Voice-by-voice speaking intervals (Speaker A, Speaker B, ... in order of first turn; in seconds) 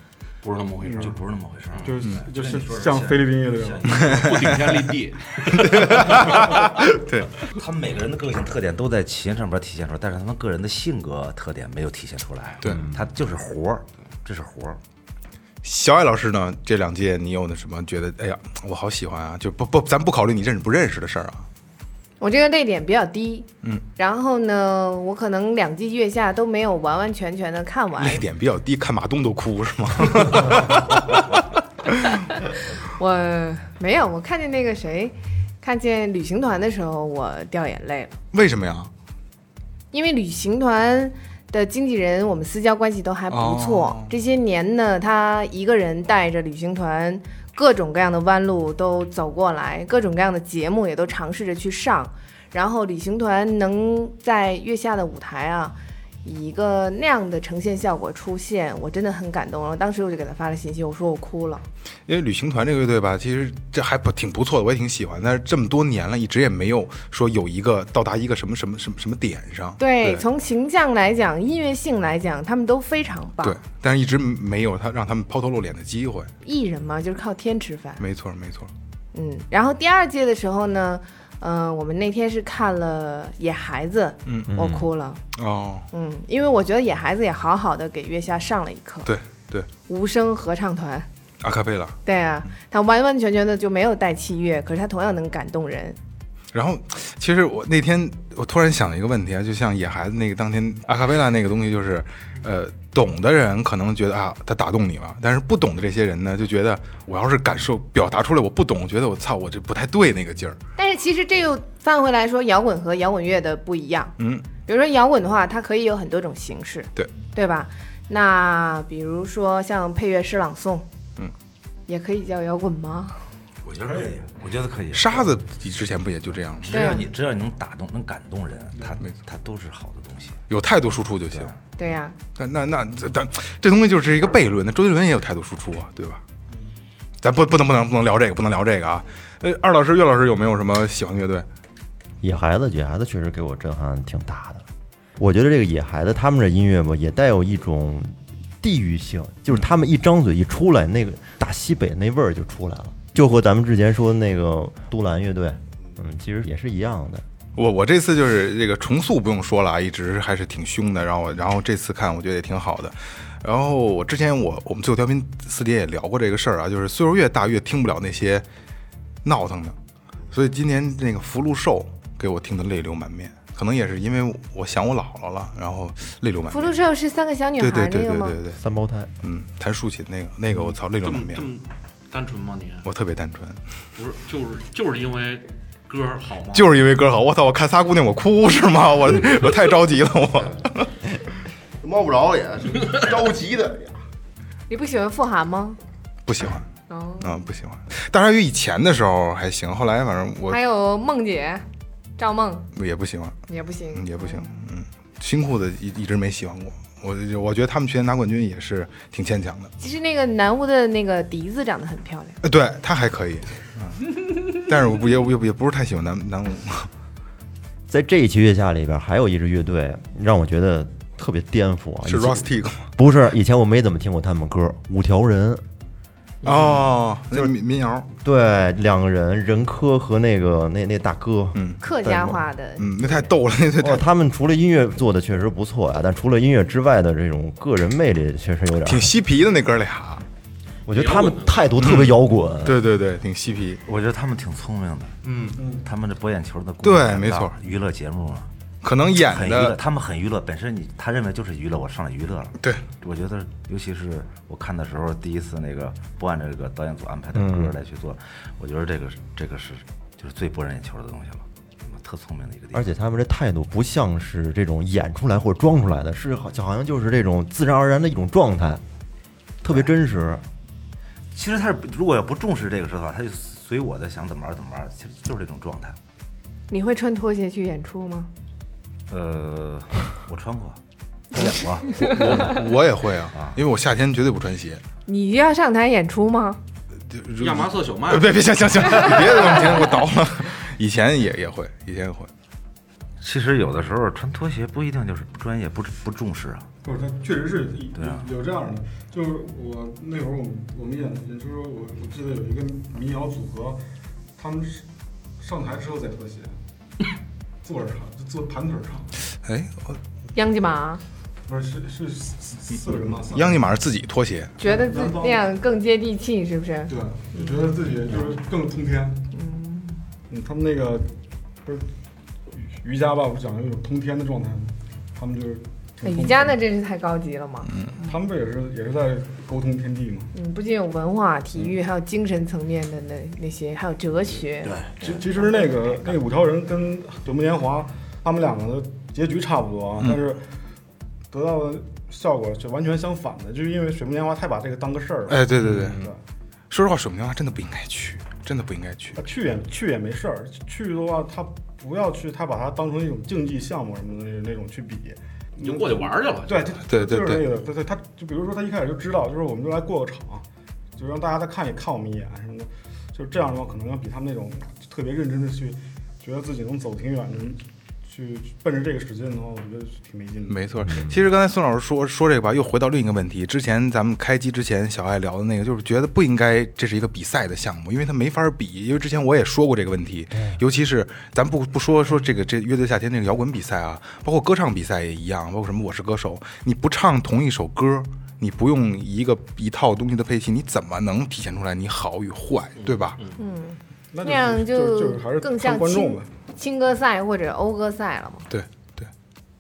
Speaker A: 0.4-1.1, 1.7-2.0, 4.0-6.3, 180.5-182.9, 184.0-186.8, 226.4-226.8, 240.9-241.8, 287.4-288.6, 355.6-356.8, 392.8-393.4
Speaker B: 0.8-1.1, 1.9-4.0, 123.8-124.1, 245.6-245.9, 296.8-303.8, 304.4-304.9, 305.4-306.6, 307.6-309.1, 311.5-313.7, 314.6-315.5, 316.9-319.3, 320.3-321.1, 322.7-326.6, 328.0-330.3, 334.7-340.4, 341.3-346.2, 349.2-360.4, 361.0-370.9, 394.1-396.3
Speaker C: 1.0-4.7, 5.7-6.6, 7.5-14.8, 123.7-125.4, 126.6-130.4, 243.9-245.2, 245.8-248.5, 249.1-262.9, 271.3-276.0, 279.1-280.8, 281.3-282.6, 293.2-296.7, 297.9-298.3
Speaker D: 4.2-4.7, 5.6-7.3, 15.6-21.5, 28.0-32.0, 38.3-38.9, 43.3-44.1, 62.1-70.2, 73.4-76.3, 78.0-78.7, 84.3-84.5, 85.3-85.9, 89.0-89.7, 91.4-92.0, 96.5-110.6, 114.2-114.5, 124.9-127.0, 130.5-131.5, 132.4-136.2, 137.2-141.5, 157.6-168.4, 169.2-169.8, 170.3-176.8, 177.6-178.6, 179.2-181.5, 182.8-183.6, 186.5-190.9, 196.3-196.7, 197.2-200.6, 202.8-203.4, 203.9-209.7, 212.4-216.9, 222.1-222.9, 226.4-228.1, 231.6-234.0, 238.8-240.2, 241.8-243.8, 245.3-245.6, 246.8-247.6, 248.8-249.8, 252.6-252.8, 281.9-284.8, 287.1-292.3, 309.4-310.0, 313.3-314.6, 327.7-327.9, 345.3-346.1, 346.7-349.2, 356.9-357.4, 370.5-393.2, 398.5-399.1
Speaker E: 22.2-28.2, 33.0-38.2, 39.9-61.6, 69.8-73.6, 76.4-78.0, 79.1-85.2, 85.9-89.1, 89.9-91.1, 92.0-96.0, 110.8-120.9, 121.9-123.2, 126.7-127.0, 131.8-132.2, 176.5-178.4, 194.7-195.8, 196.9-197.4, 200.5-201.7, 202.2-202.7, 203.5-204.5, 209.8-212.4, 231.8-233.1, 276.7-278.3, 285.1-286.6, 310.4-311.0, 314.6-317.7, 319.3-320.0, 326.0-328.1, 330.3-336.1, 393.4-398.5
Speaker F: 84.5-84.9, 142.2-144.7, 145.2-157.2, 178.6-179.1, 217.9-225.6, 228.2-231.6, 233.8-239.1, 240.9-242.8, 257.3-257.8, 262.7-268.8, 269.6-270.4, 370.9-371.2
Speaker G: 191.8-194.0